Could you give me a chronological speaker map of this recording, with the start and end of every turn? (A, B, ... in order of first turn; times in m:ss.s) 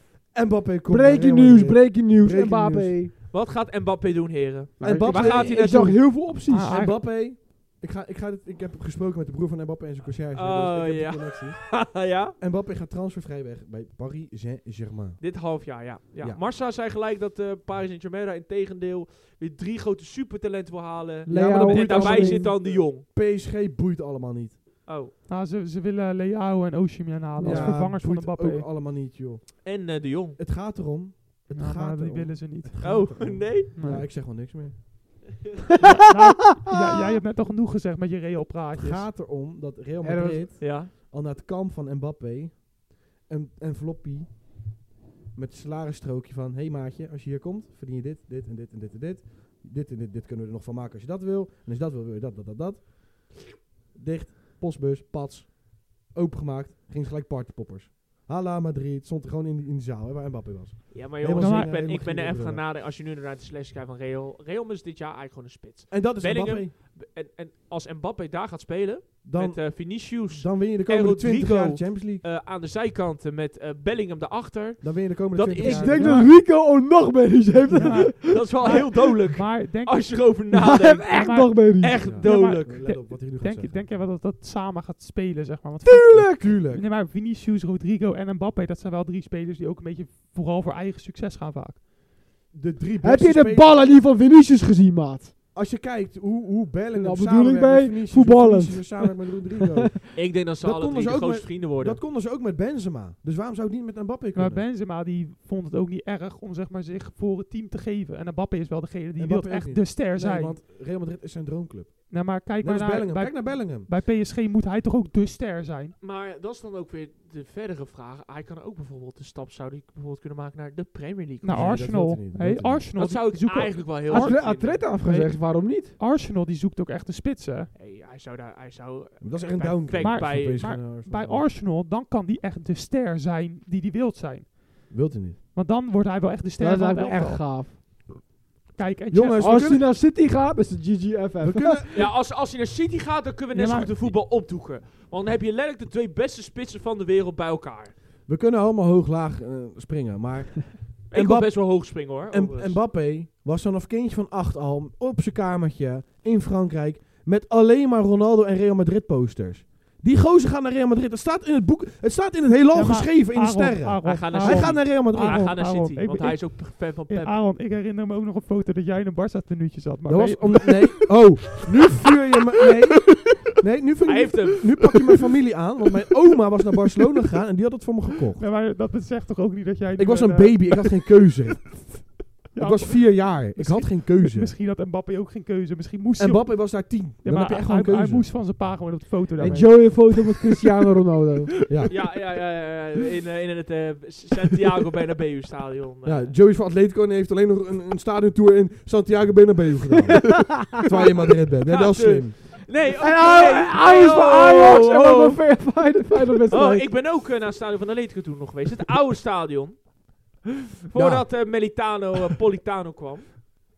0:00.3-0:03.0 A
0:00.9-0:03.1 B
0:03.3-0:05.9 C
0:04.8-0:06.7 B
0:04.8-0:15.4 A
0:06.5-0:07.0 D
0:10.3-0:12.4 C
0:15.2-0:23.0 C
0:21.3-0:22.5 B
0:21.3-0:24.6 A
0:24.9-0:25.1 C
0:25.3-0:28.7 D
0:27.4-0:27.8 B
0:27.4-0:35.1 A
0:29.6-0:30.4 C
0:31.5-0:33.0 D
0:32.8-0:33.7 C
0:33.8-0:34.1 D
0:35.9-0:39.1 D
0:38.7-0:44.8 A
0:40.0-0:40.5 B
0:40.6-0:40.9 C
0:45.3-1:02.6 A
1:00.9-1:16.1 C
1:01.4-1:01.7 D
1:05.9-1:06.7 A
1:09.2-1:12.2 A
1:14.8-1:16.3 A
1:15.6-1:19.0 B
1:16.0-1:16.3 D
1:17.7-1:20.3 D
1:17.8-1:23.0 C
1:20.5-1:22.0 B
1:21.1-1:31.8 D
1:22.0-1:24.0 A
1:25.8-1:26.6 B
1:26.2-1:26.9 A
1:32.5-1:33.8 A
1:33.0-1:35.3 B
1:35.5-1:44.7 A
1:36.9-1:39.4 B
1:40.1-1:42.0 C
1:44.3-1:50.6 D
1:49.2-1:53.9 A
1:52.1-1:56.0 D
1:56.0-2:02.0 C
2:01.4-2:07.7 D
2:01.5-2:02.9 A
2:03.0-2:04.8 C
2:04.1-2:06.0 B
2:07.7-2:10.8 C
2:09.2-2:11.5 A
2:10.0-2:14.9 D
2:14.9-2:15.4 A
2:15.5-2:17.7 D
2:16.6-2:17.8 B
2:18.8-2:19.8 D
2:19.1-2:19.9 A
2:19.4-2:22.0 B
2:21.4-2:22.1 A
2:21.9-2:28.0 C
2:23.5-2:24.1 D
2:28.3-2:45.6 A
2:31.1-2:32.8 C
2:42.7-2:51.3 D
2:44.0-2:47.4 C
2:50.1-2:58.5 A
2:54.0-2:54.6 C
2:58.4-3:00.9 D
3:00.0-3:04.6 A
3:02.5-3:10.2 D
3:06.2-3:08.4 A
3:09.4-3:11.5 B
3:09.4-3:09.7 A
3:11.7-3:11.9 A
3:11.9-3:16.3 C
3:16.0-3:22.6 A
3:21.7-3:25.4 C
3:23.0-3:26.9 B
3:26.5-3:30.0 C
3:30.9-3:33.6 C
3:30.9-3:31.4 A